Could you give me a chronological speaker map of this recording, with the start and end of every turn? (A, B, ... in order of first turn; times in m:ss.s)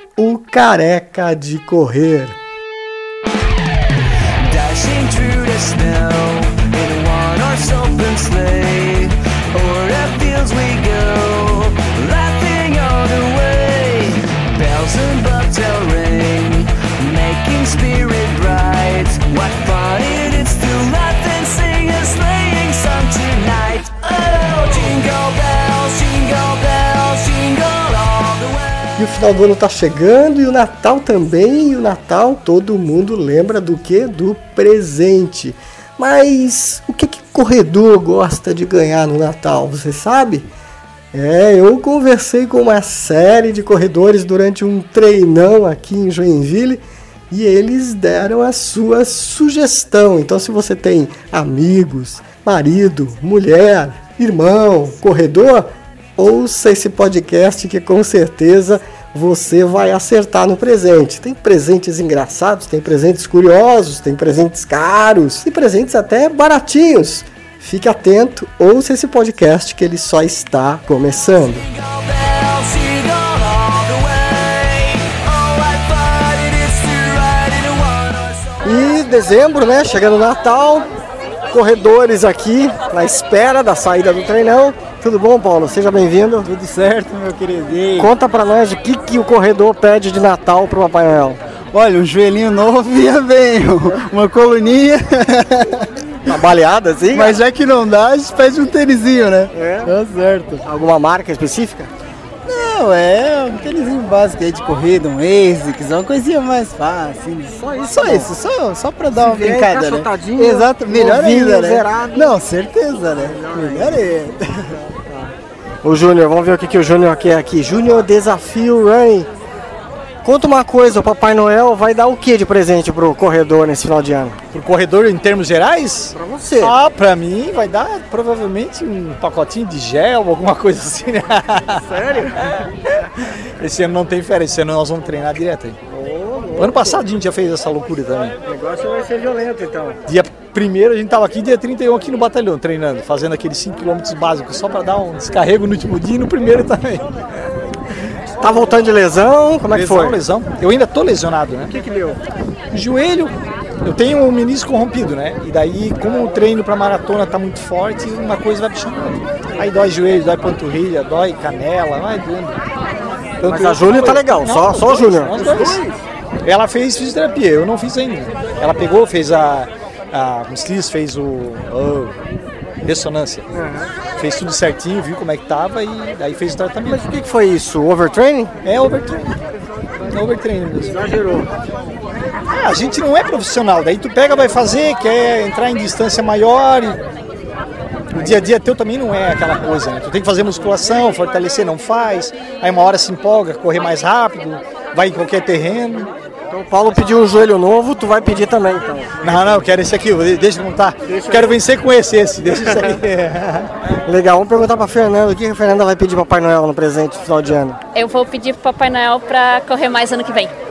0:00.2-0:02.4 A
0:04.4-0:29.0 B
0:29.0-0:40.5 A
0:41.1-1:11.7 A
1:11.5-1:18.6 B
1:18.6-1:20.9 A
1:21.5-1:26.5 A
1:26.4-1:28.1 C
1:28.0-1:31.4 A
1:31.7-1:35.6 C
1:36.2-1:37.4 A
1:37.1-1:40.6 C
1:39.5-1:39.9 A
1:40.6-1:41.9 A
1:42.4-1:54.4 C
1:47.5-1:48.3 A
1:49.1-1:52.3 A
1:53.2-1:54.1 A
1:54.7-1:59.3 A
2:00.2-2:04.4 A
2:04.5-2:11.8 D
2:06.1-2:06.8 A
2:11.8-2:12.4 A
2:13.6-2:15.8 D
2:15.9-2:17.0 A
2:16.6-2:18.4 D
2:18.4-2:20.0 A
2:20.1-2:27.1 D
2:28.4-2:30.2 A
2:29.7-2:31.7 D
2:31.7-2:32.2 A
2:32.7-2:42.6 D
2:43.4-2:45.8 D
2:43.4-2:46.0 A
2:46.4-2:52.2 D
2:52.8-2:53.5 D
2:53.5-2:53.9 A
2:54.0-2:57.0 D
2:56.8-2:58.6 A
2:58.6-2:59.3 D
3:00.1-3:01.0 D
3:00.8-3:01.5 A
3:02.5-3:07.0 D
3:08.1-3:16.1 D
3:16.5-3:19.6 A
3:19.2-3:23.7 D
3:21.0-3:21.6 A
3:22.6-3:23.0 A
3:24.0-3:27.8 A
3:27.9-3:30.5 E